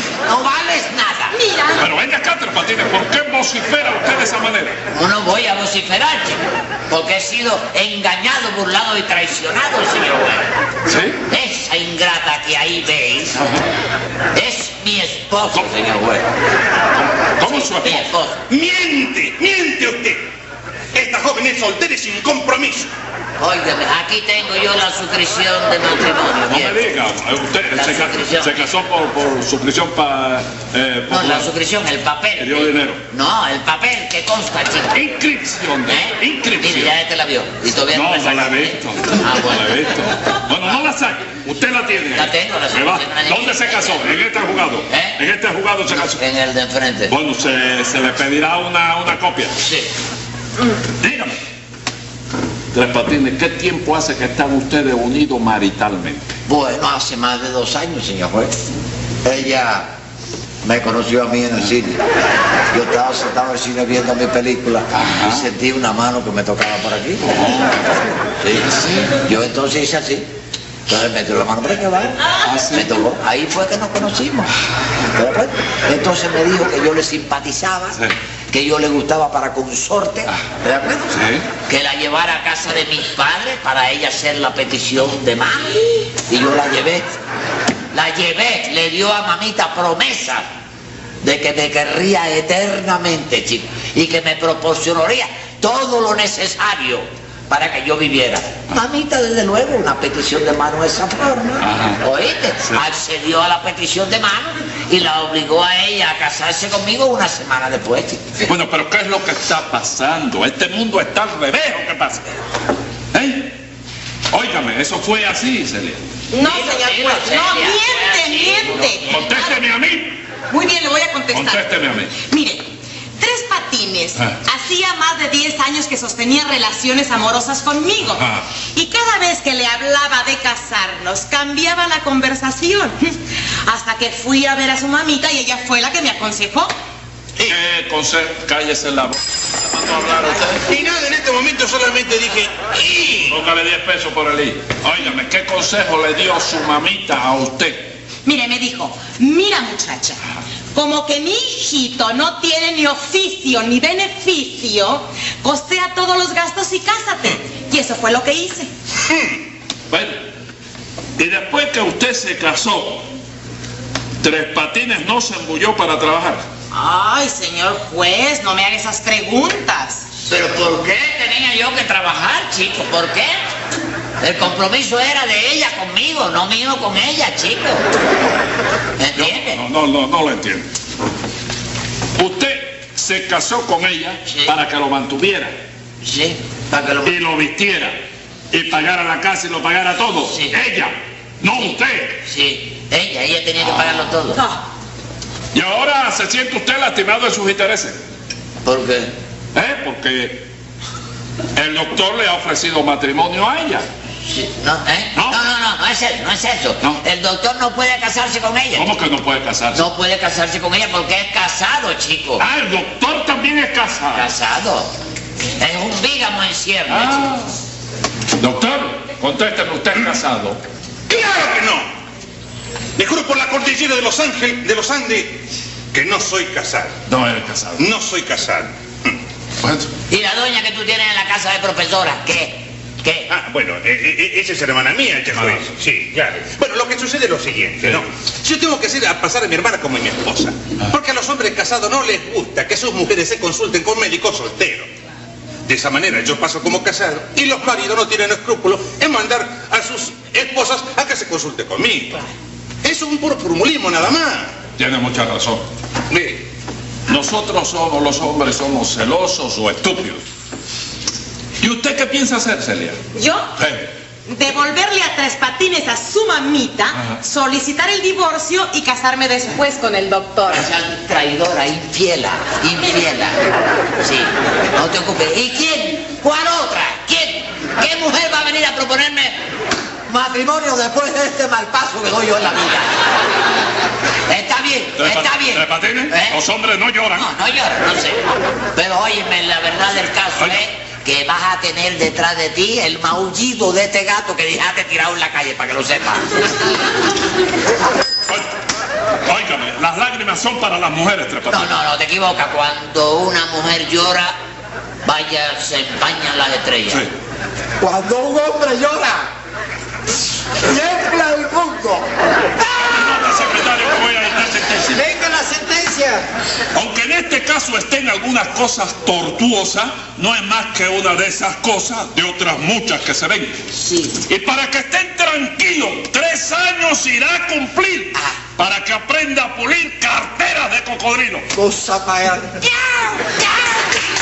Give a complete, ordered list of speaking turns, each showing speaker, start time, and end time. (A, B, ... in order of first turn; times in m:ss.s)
0:00.2-0:01.3 A
0:01.3-0:01.8 B
0:01.8-0:04.8 C
0:04.9-0:10.5 A
0:10.9-0:11.2 C
0:11.3-0:13.4 A
0:13.4-0:13.6 C
0:14.3-0:16.2 A
0:17.4-0:18.1 C
0:17.4-0:18.4 A
0:18.5-0:20.3 D
0:20.9-0:22.9 D
0:23.4-0:26.9 A
0:26.5-0:31.5 C
0:27.7-0:28.5 A
0:31.1-0:35.1 A
0:32.4-0:33.0 C
0:34.9-0:36.9 C
0:35.8-0:39.8 A
0:37.9-0:46.2 C
0:42.1-0:44.0 A
0:44.9-0:45.2 A
0:45.9-0:47.1 A
0:47.1-0:49.6 C
0:49.6-0:49.9 A
0:51.0-0:51.4 C
0:52.7-0:56.4 C
0:56.5-0:58.5 A
0:59.2-0:59.9 A
1:00.6-1:02.0 A
1:02.7-1:07.3 A
1:04.9-1:05.5 C
1:07.2-1:07.9 C
1:08.4-1:10.3 A
1:08.6-1:09.2 C
1:10.9-1:18.0 A
1:12.4-1:12.9 C
1:18.5-1:27.1 A
1:21.1-1:21.4 C
1:27.9-1:30.4 A
1:31.2-1:48.3 A
1:41.6-1:42.0 C
1:48.4-1:52.2 C
1:53.1-1:53.6 C
1:54.3-1:56.0 C
1:56.3-1:59.6 B
1:56.4-1:59.0 A
1:59.0-2:00.2 C
2:00.5-2:02.7 B
2:01.3-2:02.1 C
2:03.2-2:16.7 B
2:08.1-2:08.4 C
2:17.4-2:20.6 C
2:20.6-2:23.4 D
2:23.3-2:28.0 C
2:28.2-2:30.2 B
2:30.7-2:38.7 B
2:39.1-2:39.4 D
2:39.9-2:40.2 C
2:41.2-2:43.1 C
2:44.2-2:46.4 C
2:46.7-2:50.1 B
2:50.2-2:53.4 A
2:54.2-2:57.8 A
2:59.0-2:59.6 A
2:59.1-3:00.7 C
3:02.2-3:05.5 C
3:04.3-3:04.5 A
3:06.0-3:07.2 A
3:07.0-3:08.0 C
3:08.5-3:12.2 C
3:10.2-3:10.6 A
3:11.5-3:14.4 A
3:14.4-3:14.6 B
3:15.5-3:18.0 C
3:18.6-3:19.1 A
3:19.5-3:20.4 C
3:21.5-3:23.9 C
3:24.2-3:28.9 A
3:25.2-3:25.4 C
3:28.8-3:29.8 C
3:29.7-3:32.4 A
3:32.4-3:34.3 C
3:34.1-3:34.9 A
3:35.6-3:37.4 A
3:36.9-3:37.5 C
3:38.4-3:40.6 C
3:41.1-3:41.8 D
3:43.0-3:45.4 D
3:45.9-3:47.0 D
3:47.1-3:47.8 C
3:47.8-3:49.2 D
3:49.6-3:49.9 C
3:50.1-3:53.3 A
3:53.3-4:04.9 D
4:05.7-4:12.3 D
4:12.8-4:14.5 D
4:14.8-4:16.4 C
4:17.1-4:20.2 C
4:21.6-4:23.0 C
4:23.1-4:23.5 B
4:23.6-4:23.9 C
4:24.3-4:30.7 B
4:30.5-4:39.4 A
4:40.1-4:43.1 A
4:44.3-4:46.4 A
4:45.0-4:47.3 C
4:47.1-4:56.5 A
4:59.2-5:01.7 C
5:01.5-5:04.3 A
5:05.0-5:07.0 A
5:07.8-5:09.3 E
5:10.6-5:12.1 E
5:12.7-5:15.0 C
5:14.9-5:16.2 E
5:16.7-5:23.6 C
5:23.8-5:24.2 A
5:24.2-5:31.5 C
5:31.5-5:32.6 E
5:32.6-5:33.8 A